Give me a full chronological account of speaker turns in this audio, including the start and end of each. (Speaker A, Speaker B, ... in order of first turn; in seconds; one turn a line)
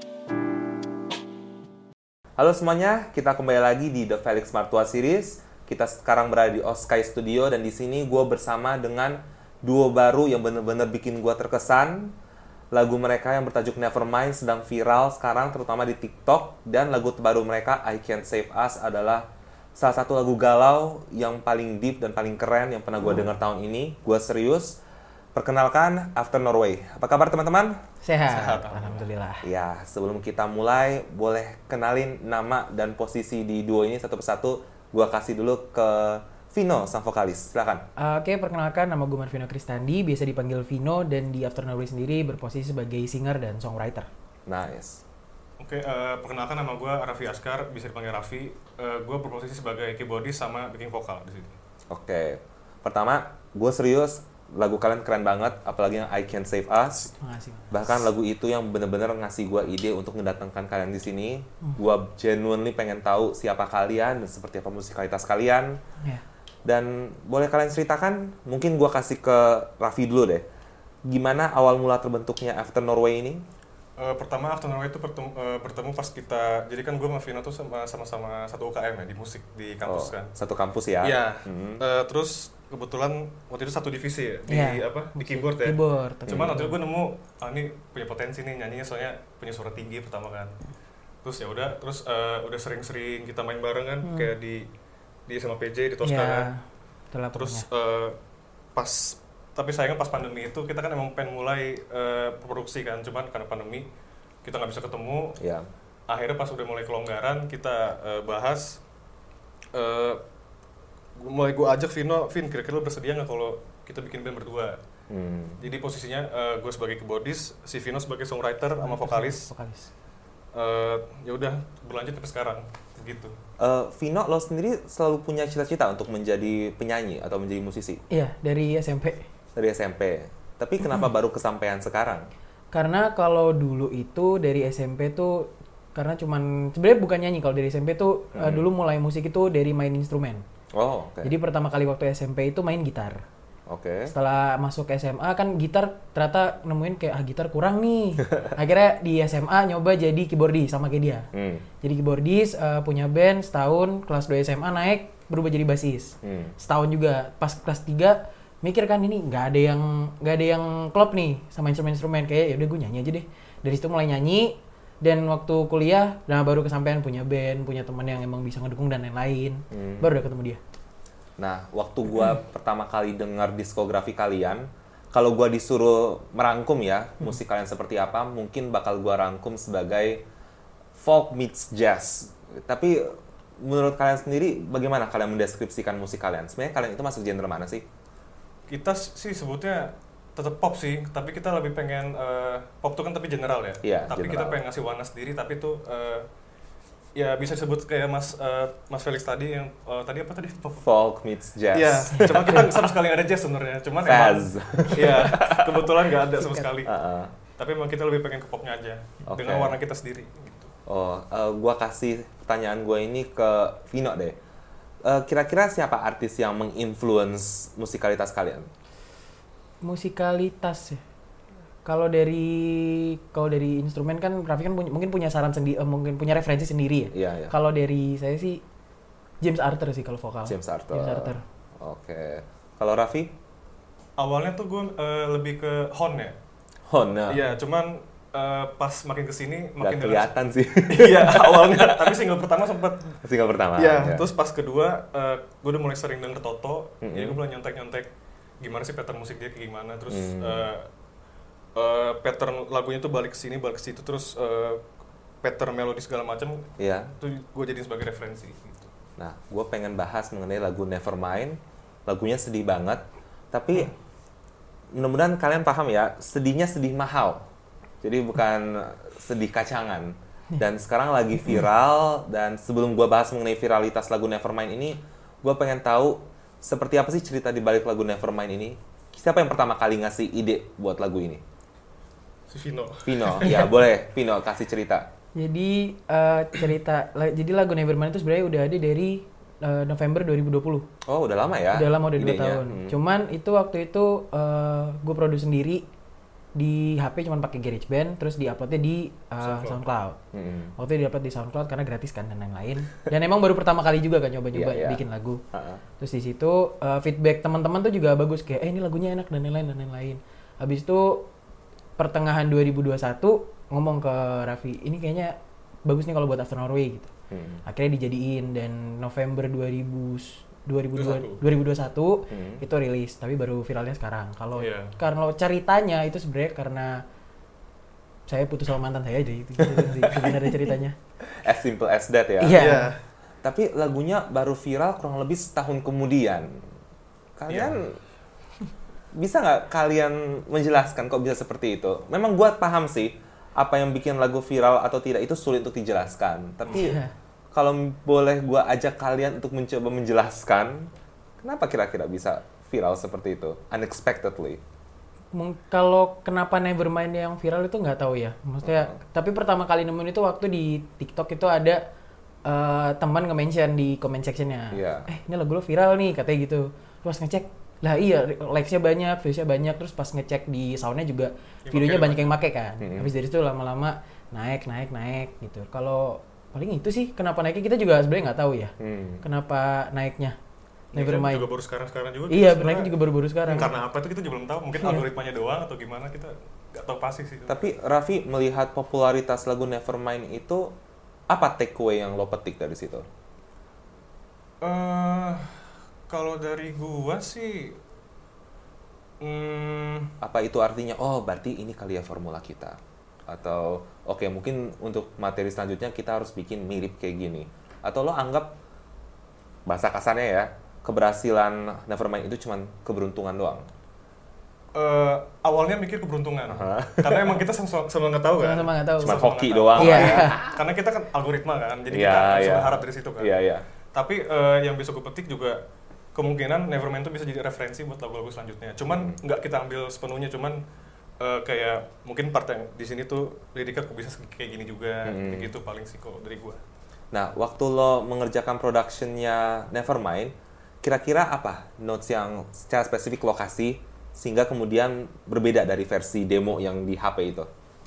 Speaker A: 2.4-12.1
Speaker A: 12.7-24.8
Speaker A: 25.3-27.8
Speaker B: 28.0-29.5
Speaker C: 28.3-29.1
Speaker A: 29.4-37.8
Speaker B: 38.0-44.1
Speaker A: 44.5-45.0
Speaker C: 45.6-51.5
Speaker A: 51.9-57.1
Speaker B: 57.1-58.0
Speaker A: 57.7-65.8
Speaker A: 66.7-70.4
Speaker A: 71.0-73.4
Speaker C: 74.0-80.3
Speaker A: 79.8-81.8
Speaker C: 81.0-90.5
Speaker B: 84.5-86.8
Speaker A: 86.3-86.6
Speaker C: 91.2-94.7
Speaker B: 94.0-94.3
Speaker C: 95.3-96.5
Speaker B: 96.0-97.7
Speaker C: 97.3-98.2
Speaker C: 98.7-103.9
Speaker C: 104.4-105.4
Speaker A: 105.4-105.7
Speaker C: 106.1-108.8
Speaker C: 109.7-110.2
Speaker C: 111.2-114.8
Speaker A: 115.1-115.6
Speaker C: 115.6-119.5
Speaker B: 118.8-119.9
Speaker C: 120.5-123.3
Speaker A: 123.6-128.0
Speaker B: 128.1-129.2
Speaker A: 129.6-132.2
Speaker B: 132.7-140.4
Speaker A: 138.3-138.7
Speaker A: 140.7-141.3
Speaker B: 141.2-143.2
Speaker A: 143.7-144.1
Speaker B: 144.1-151.3
Speaker A: 151.3-151.7
Speaker B: 151.8-170.6
Speaker A: 156.2-156.5
Speaker A: 169.7-170.1
Speaker A: 171.4-180.2
Speaker A: 181.0-187.8
Speaker C: 188.7-196.3
Speaker A: 193.8-194.6
Speaker C: 197.2-200.8
Speaker A: 200.8-202.6
Speaker C: 201.7-206.9
Speaker B: 202.1-202.7
Speaker A: 204.0-206.0
Speaker B: 206.4-206.7
Speaker A: 206.8-207.3
Speaker C: 207.6-210.7
Speaker A: 209.2-209.8
Speaker A: 210.9-214.3
Speaker A: 215.0-218.7
Speaker B: 219.8-221.0
Speaker B: 221.8-228.6
Speaker A: 227.1-227.6
Speaker B: 229.4-231.4
Speaker A: 230.4-233.3
Speaker C: 234.2-236.4
Speaker A: 236.9-237.4
Speaker C: 237.3-240.3
Speaker A: 239.8-242.2
Speaker C: 240.9-243.2
Speaker A: 243.2-244.3
Speaker C: 243.8-248.1
Speaker A: 247.0-247.4
Speaker C: 248.6-250.9
Speaker A: 250.1-250.7
Speaker C: 251.8-254.8
Speaker C: 255.4-256.6
Speaker A: 256.8-257.1
Speaker C: 257.2-258.9
Speaker A: 259.2-263.9
Speaker A: 264.9-267.5
Speaker A: 268.0-281.4
Speaker C: 282.5-283.5
Speaker A: 283.1-285.1
Speaker B: 283.4-283.7
Speaker B: 285.3-290.9
Speaker A: 291.1-293.0
Speaker B: 291.7-295.9
Speaker B: 296.6-300.2
Speaker C: 299.4-299.8
Speaker A: 300.3-300.7
Speaker B: 300.8-305.4
Speaker A: 304.5-305.0
Speaker A: 305.5-305.8
Speaker B: 306.0-311.3
Speaker B: 312.0-317.1
Speaker A: 317.3-317.6
Speaker B: 317.6-327.0
Speaker C: 320.9-321.4
Speaker A: 322.3-322.6
Speaker C: 324.6-324.9
Speaker B: 328.3-330.9
Speaker C: 329.6-330.4
Speaker A: 331.4-332.7
Speaker B: 332.4-332.9
Speaker C: 332.5-333.0
Speaker A: 333.4-336.6
Speaker A: 337.4-338.0
Speaker C: 337.5-337.8
Speaker A: 339.1-347.0
Speaker B: 346.7-347.1
Speaker A: 347.5-350.9
Speaker A: 351.4-354.6
Speaker B: 355.3-361.8
Speaker A: 358.6-358.9
Speaker B: 362.4-380.4
Speaker A: 364.7-365.1
Speaker C: 371.6-372.4
Speaker A: 372.8-373.1
Speaker A: 378.8-379.2
Speaker B: 380.9-381.5
Speaker C: 380.9-382.9
Speaker B: 382.3-383.7
Speaker C: 383.5-387.6
Speaker B: 384.8-385.1
Speaker A: 387.5-390.7
Speaker A: 391.3-393.0
Speaker C: 394.6-397.8
Speaker C: 399.2-400.1
Speaker A: 400.2-408.6
Speaker A: 409.7-413.6
Speaker C: 414.7-423.3
Speaker A: 416.5-417.4
Speaker B: 418.4-419.2
Speaker A: 419.0-420.6
Speaker B: 419.8-420.4
Speaker A: 421.9-423.6
Speaker C: 423.9-425.6
Speaker C: 426.1-430.6
Speaker A: 428.9-429.2
Speaker C: 431.2-436.6
Speaker A: 435.0-435.5
Speaker A: 437.1-447.5